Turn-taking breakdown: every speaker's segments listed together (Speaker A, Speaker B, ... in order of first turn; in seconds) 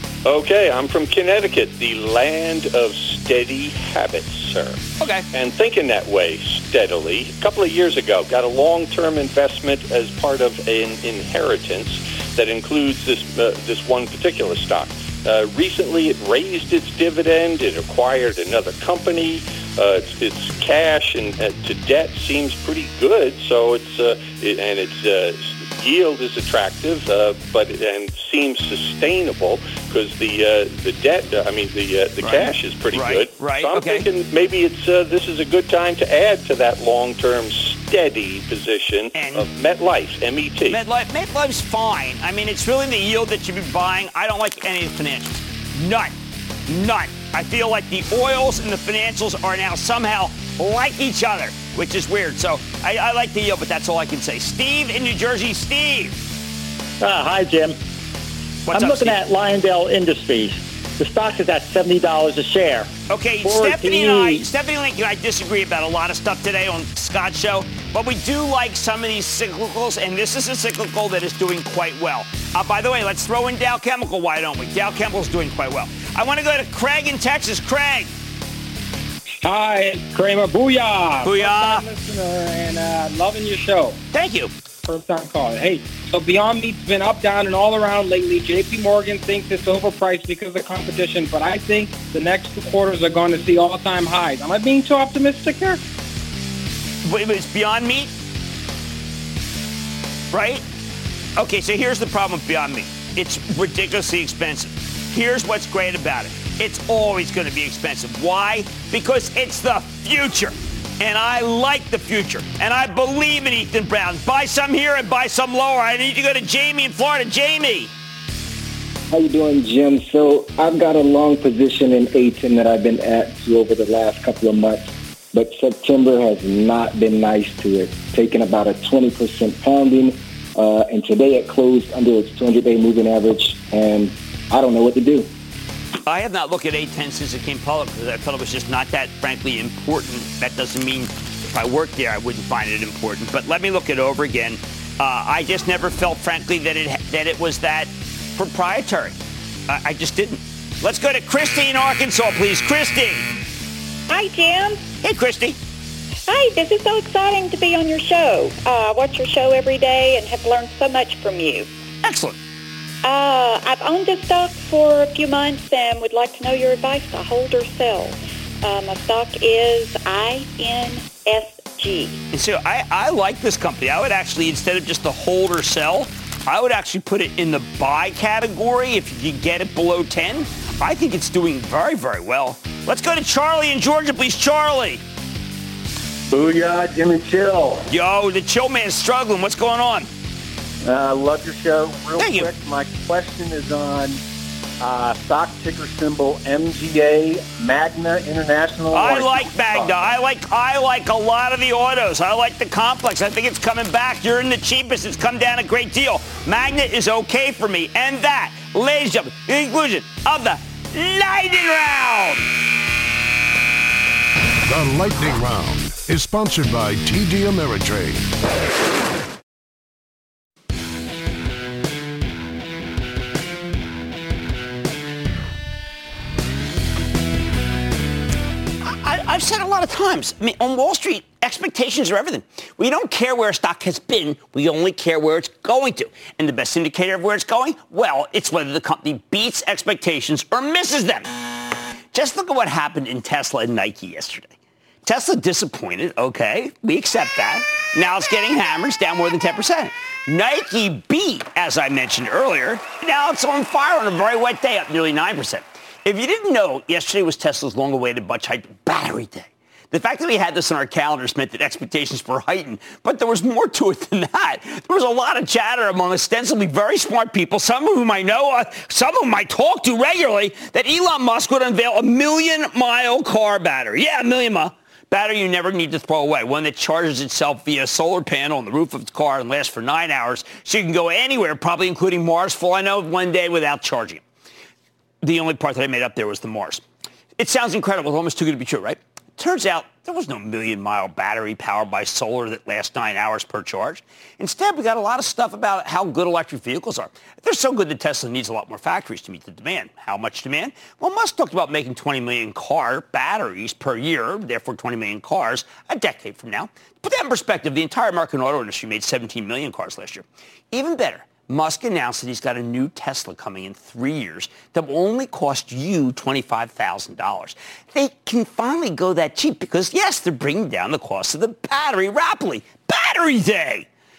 Speaker A: 0.2-4.8, 5.3-40.8
Speaker B: 5.0-5.2, 32.2-34.1, 39.1-39.5, 40.7-46.1, 46.7-56.1, 58.7-59.2, 63.1-78.1, 81.2-81.8, 84.1-84.5, 97.0-98.1, 100.3-100.6, 101.3-117.9, 136.1-149.2, 149.7-153.3, 155.0-155.6, 162.0-162.4, 172.3-185.0, 187.9-190.1, 192.2-192.5, 198.9-212.4, 228.8-241.3, 242.1-284.2, 285.2-286.8, 287.4-323.9
Speaker C: 57.0-57.7, 58.7-62.9, 63.4-64.4
Speaker D: 79.4-84.0, 84.8-95.8
Speaker E: 119.1-135.3
Speaker F: 154.1-154.8, 156.3-161.7, 163.0-172.2
Speaker G: 186.3-187.8, 190.8-194.2, 194.8-200.1
Speaker H: 214.7-218.3